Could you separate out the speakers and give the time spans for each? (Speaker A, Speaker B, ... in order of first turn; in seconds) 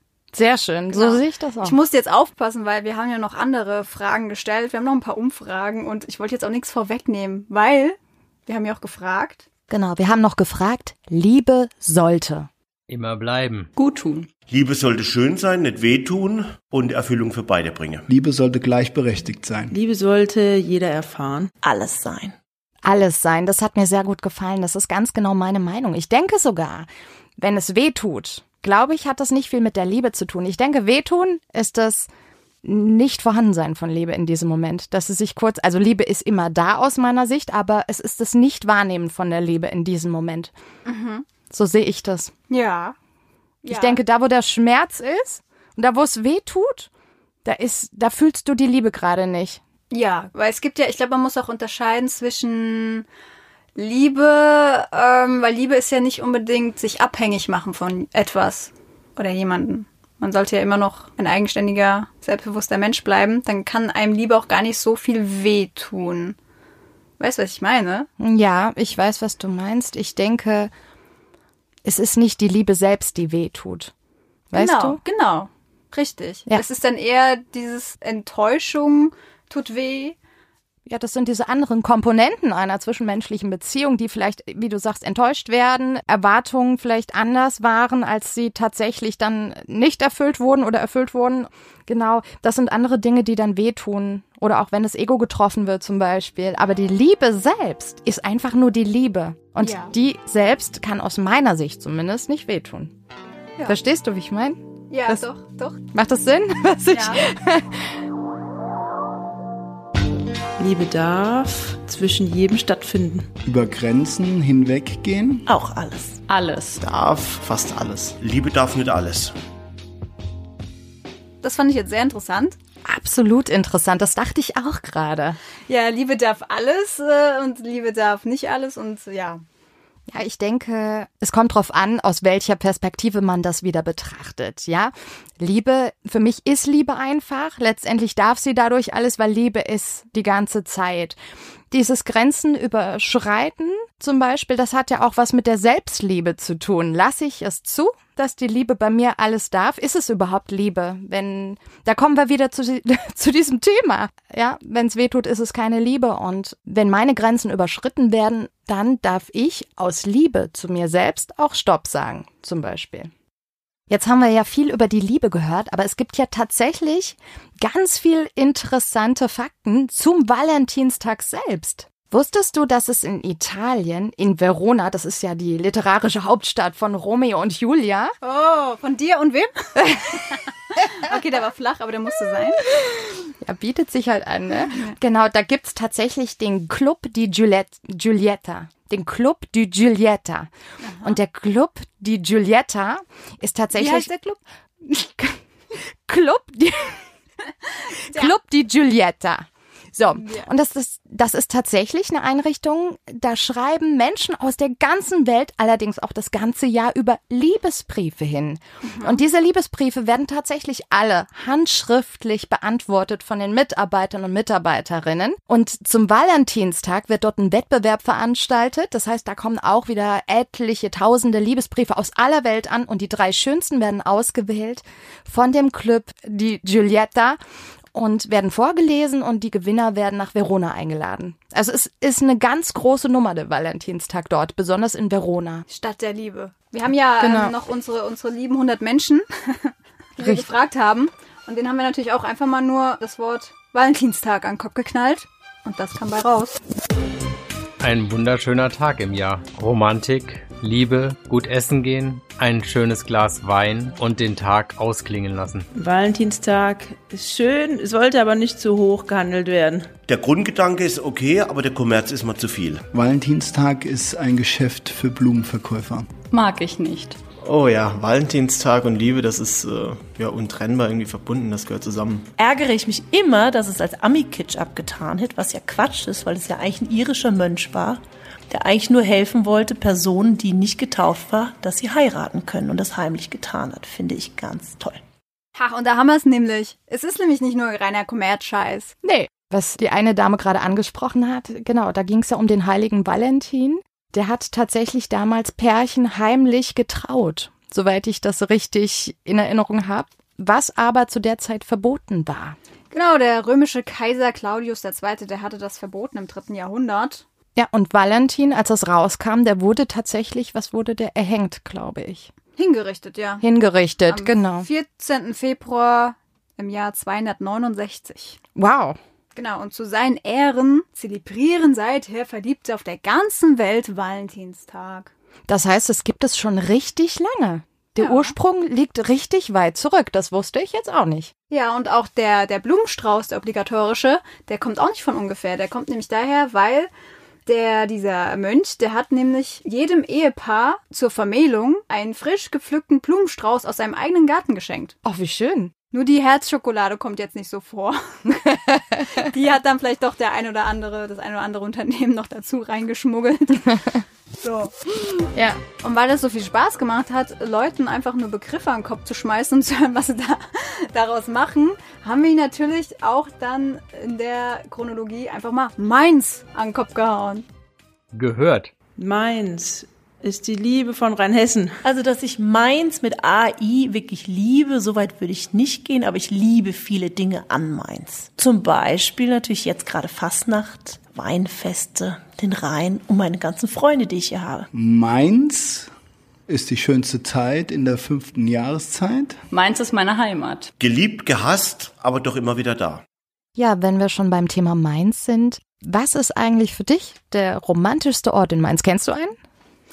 Speaker A: 0.3-1.8, 9.7-12.5, 22.8-32.1, 32.6-40.5, 41.5-42.3, 43.7-46.9, 47.4-49.6, 68.2-70.7, 71.8-73.9, 74.5-75.0, 80.8-102.9, 103.7-105.2, 105.9-107.8, 122.8-125.4, 130.1-141.2, 141.7-163.1, 163.9-178.1, 179.8-180.2, 182.7-190.5, 191.0-194.1, 194.8-195.4, 195.9-197.1, 198.1-227.4, 227.9-235.6, 237.2-237.5, 240.2-240.5, 289.0-302.6, 307.6-312.3, 313.4-314.7, 318.5-319.0, 325.5-331.3, 345.0-345.7, 348.4-349.1, 355.3-355.6, 393.6-399.4
Speaker B: 0.9-9.4, 40.8-41.2, 42.5-42.9, 43.6-44.0, 49.9-53.0, 53.8-66.4, 67.2-68.1, 74.5-80.2, 99.6-99.9, 104.9-105.8, 106.9-107.2, 121.4-122.6, 125.7-129.4, 178.2-182.6, 184.7-184.9, 190.8-191.2, 193.7-194.4, 197.9-198.3, 200.1-200.5, 208.8-209.2, 235.7-246.6, 285.6-288.9, 302.9-307.2, 312.6-313.4, 314.1-318.4, 319.4-325.1, 328.0-328.3, 331.5-336.9, 337.4-344.9, 345.9-348.5, 349.0-353.8, 354.4-354.8, 355.8-367.4
Speaker C: 12.9-13.7, 247.8-255.7, 368.1-368.7
Speaker D: 13.8-14.3, 116.3-116.8, 266.3-267.2, 389.5-390.7
Speaker E: 14.5-18.1, 118.2-119.3, 260.1-262.8, 390.8-393.0
Speaker F: 18.1-19.7, 113.4-115.5, 262.9-266.1, 384.7-385.9, 386.5-389.4
Speaker G: 19.7-21.5, 110.6-113.3, 255.7-259.9, 369.0-371.8
Speaker H: 21.6-22.4, 115.5-116.2, 272.4-285.0, 371.8-384.7
Speaker I: 116.8-118.2, 267.4-272.3